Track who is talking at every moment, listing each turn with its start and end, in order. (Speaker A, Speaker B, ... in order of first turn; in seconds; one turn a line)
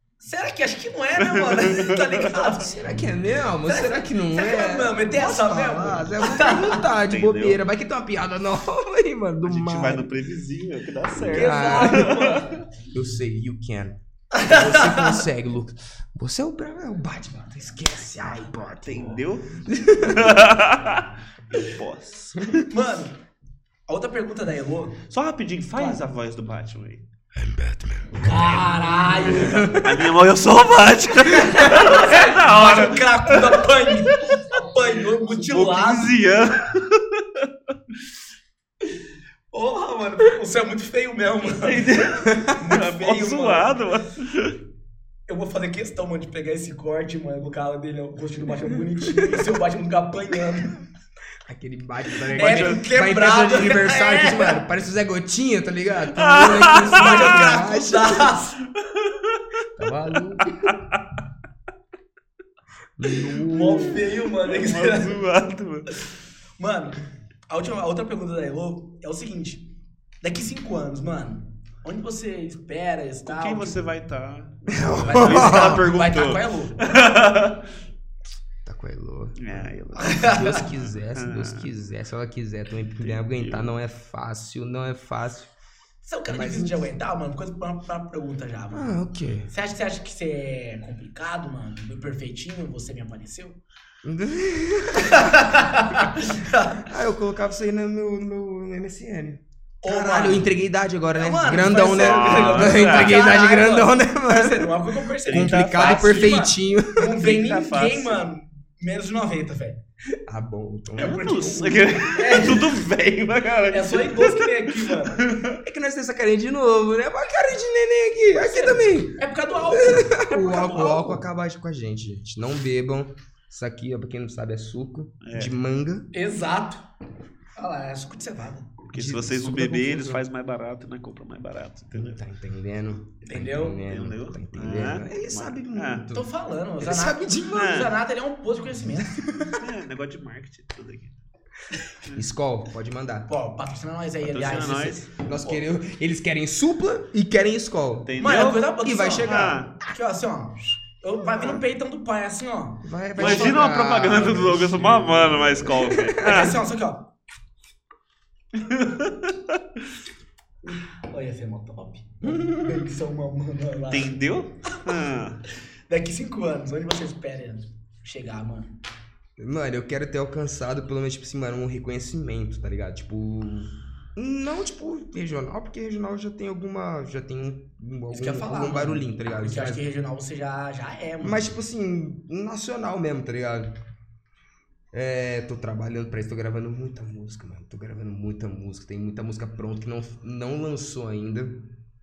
Speaker A: 0.2-2.8
Speaker B: 1.3-2.5
Speaker C: 2.6-10.1
Speaker A: 3.7-6.8
Speaker B: 7.0-7.6
Speaker B: 9.4-12.6
Speaker C: 11.2-12.2
Speaker A: 11.3-12.6
Speaker C: 12.9-20.4
Speaker A: 14.3-15.2
Speaker B: 18.8-22.7
Speaker A: 22.6-23.2
Speaker A: 23.9-25.0
Speaker B: 25.1-27.0
Speaker A: 25.8-26.0
Speaker C: 27.3-30.1
Speaker A: 28.2-29.8
Speaker B: 29.3-34.4
Speaker A: 31.3-36.1
Speaker B: 35.4-37.5
Speaker A: 39.5-43.8
Speaker B: 41.4-44.5
Speaker A: 45.3-50.8
Speaker C: 49.2-49.4
Speaker C: 51.4-58.4
Speaker B: 52.3-52.8
Speaker A: 52.4-54.6
Speaker B: 56.1-57.5
Speaker A: 56.8-58.5
Speaker B: 58.8-59.6
Speaker C: 59.8-60.7
Speaker B: 60.4-61.0
Speaker C: 63.0-64.1
Speaker A: 63.5-65.2
Speaker B: 64.4-66.0
Speaker A: 66.6-69.7
Speaker A: 70.2-73.8
Speaker B: 73.2-77.6
Speaker C: 74.7-75.9
Speaker A: 74.9-76.8
Speaker C: 78.6-85.5
Speaker B: 79.4-81.7
Speaker A: 80.0-80.6
Speaker B: 83.0-83.7
Speaker A: 86.0-89.0
Speaker C: 86.3-86.9
Speaker C: 88.7-89.5
Speaker A: 89.5-93.6
Speaker C: 94.0-107.2
Speaker A: 95.0-96.9
Speaker A: 99.8-100.5
Speaker A: 101.2-109.8
Speaker B: 101.8-103.2
Speaker B: 105.2-106.3
Speaker B: 107.1-108.2
Speaker C: 110.3-111.8
Speaker A: 111.0-112.8
Speaker B: 111.0-115.6
Speaker A: 113.7-115.2
Speaker C: 115.6-126.1
Speaker A: 118.4-121.2
Speaker B: 125.2-125.5
Speaker A: 126.1-126.9
Speaker A: 127.5-128.7
Speaker B: 128.9-132.2
Speaker C: 128.9-130.2
Speaker C: 131.9-136.3
Speaker A: 133.2-133.8
Speaker B: 133.8-136.1
Speaker A: 136.1-139.4
Speaker C: 136.8-137.9
Speaker B: 137.5-137.9
Speaker C: 138.9-139.7
Speaker B: 139.6-141.1
Speaker C: 142.1-143.3
Speaker A: 143.3-145.1
Speaker B: 144.2-145.6
Speaker C: 145.2-148.2
Speaker B: 148.1-149.7
Speaker A: 148.2-153.6
Speaker C: 148.8-149.6
Speaker C: 152.8-156.5
Speaker B: 153.2-156.6
Speaker A: 156.2-157.1
Speaker B: 158.6-159.3
Speaker A: 160.7-164.2
Speaker C: 162.2-162.8
Speaker B: 163.9-165.4
Speaker A: 165.9-168.8
Speaker C: 169.4-179.8
Speaker A: 178.1-181.4
Speaker C: 181.2-183.7
Speaker C: 184.9-191.6